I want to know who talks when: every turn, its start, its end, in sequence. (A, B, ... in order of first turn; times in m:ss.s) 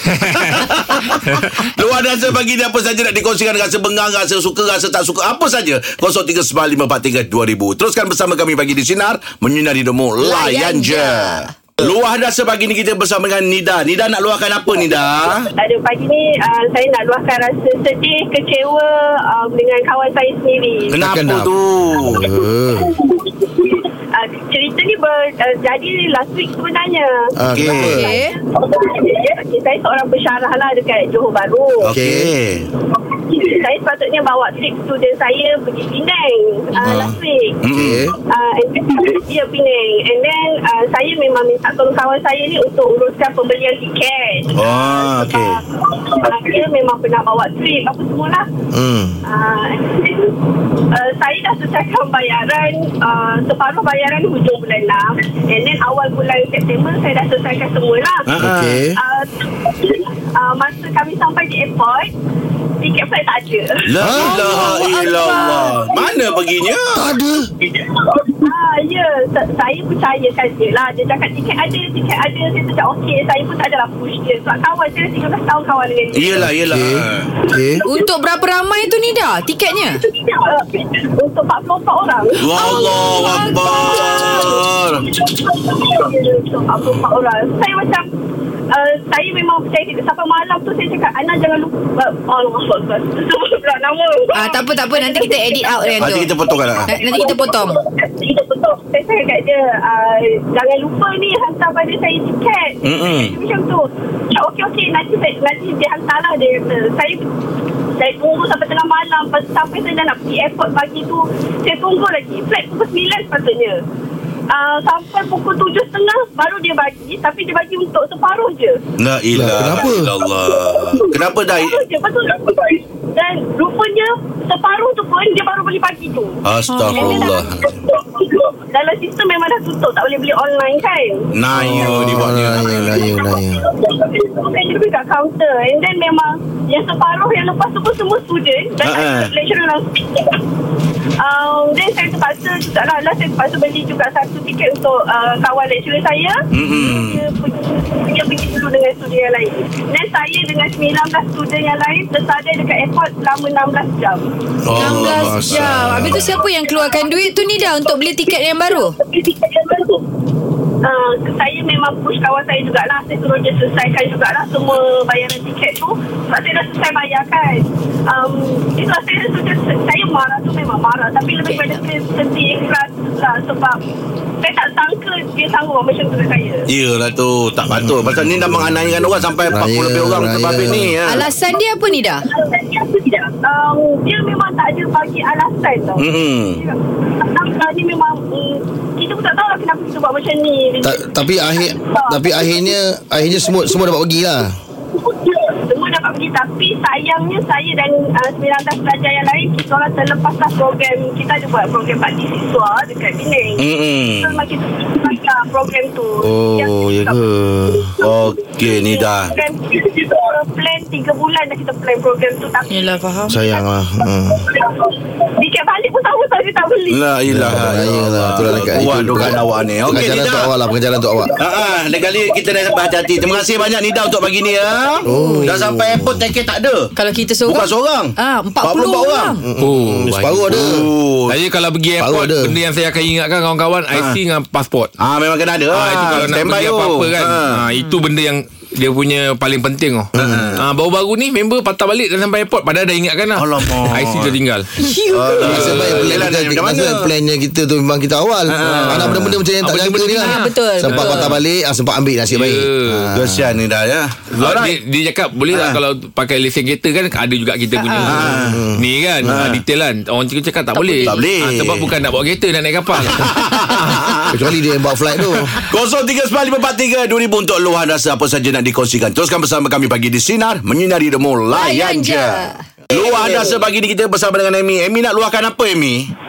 0:00.4-0:15.5 A
0:10.2-0:11.5 B
0:14.7-0:20.9 C
0:20.9-0:22.3 A
0:20.9-0:21.5 D
0:22.1-0:23.0 D
0:24.1-0:32.0 C
0:27.4-0:28.2 D
0:27.5-0:28.0 A
0:27.9-0:28.4 B
0:31.8-0:32.7 A
0:31.8-0:32.3 D
0:33.0-0:37.6 C
0:36.8-0:37.1 B
0:36.8-0:38.1 A
0:37.7-0:38.1 D
0:38.3-0:48.5 C
0:44.6-0:45.6 A
0:48.7-0:49.2 D
0:49.2-0:50.3 C
0:50.9-0:58.3 C
0:58.3-0:58.8 A
0:58.4-0:59.0 D
0:58.9-1:02.1 C
1:02.8-1:06.7 C
1:03.9-1:07.1 A
1:04.0-1:04.4 D
1:06.9-1:07.5 D
1:08.4-1:16.6 C
1:16.1-1:17.3 A
1:16.4-1:17.9 D
1:17.8-1:18.1 C
1:17.8-1:20.0 B
1:19.9-1:28.1 C
1:22.4-1:25.1 A
1:22.6-1:24.5 B
1:28.7-1:47.2 C
1:34.3-1:36.3 B
1:36.0-1:36.9 A
1:36.8-1:37.8 B
1:42.8-1:43.3 A
1:48.0-1:53.8 C
1:54.5-1:58.8 C
1:59.0-2:01.8 A
1:59.3-2:00.1 D
1:59.6-2:12.2 C
2:06.4-2:07.8 A
2:06.7-2:07.5 B
2:11.3-2:13.1 A
2:11.5-2:13.7 D
2:12.9-2:20.4 C
2:18.8-2:19.3 A
2:21.2-2:40.0 C
2:26.5-2:27.2 A
2:34.6-2:36.3 A
2:34.7-2:39.0 B
2:40.8-2:53.8 C
2:54.4-2:56.7 C
2:56.7-3:01.3 A
2:57.8-3:00.9 D
3:01.1-3:02.3 B
3:02.3-3:12.7 C
3:06.0-3:06.6 A
3:10.8-3:14.5 D
3:15.7-3:33.6 C
3:23.6-3:24.5 A
3:26.2-3:28.0 D
3:28.0-3:29.3 A
3:32.7-3:33.4 B
3:33.3-3:34.5 D
3:34.4-3:37.1 C
3:36.9-3:40.5 A
3:37.3-3:41.4 D
3:41.4-3:46.9 A
3:41.9-3:43.6 C
3:45.0-3:46.3 D
3:45.1-3:45.6 B
3:47.0-3:49.4 B
3:47.5-3:49.4 A
3:49.4-3:50.9 D
3:49.6-3:50.6 E
3:50.5-3:51.4 A
3:51.3-3:54.9 E
3:52.0-3:52.6 D
3:55.0-3:57.6 A
3:55.7-4:04.7 E
3:57.8-3:58.0 B
4:00.2-4:00.6 A
4:00.2-4:00.5 D
4:03.3-4:04.4 A
4:04.8-4:05.5 B
4:05.1-4:07.1 A
4:05.4-4:13.6 D
4:05.4-4:06.3 E
4:08.5-4:09.3 A
4:08.6-4:11.4 E
4:10.2-4:11.4 B
4:12.3-4:13.1 E
4:13.1-4:14.8 A
4:14.3-4:24.1 E
4:15.5-4:15.8 A
4:17.8-4:18.2 B
4:18.0-4:18.6 A
4:18.3-4:18.8 D
4:19.2-4:19.6 A
4:20.7-4:21.2 B
4:21.0-4:21.9 A
4:23.0-4:24.4 A
4:24.3-4:25.6 D
4:25.4-4:36.1 A
4:31.5-4:33.3 B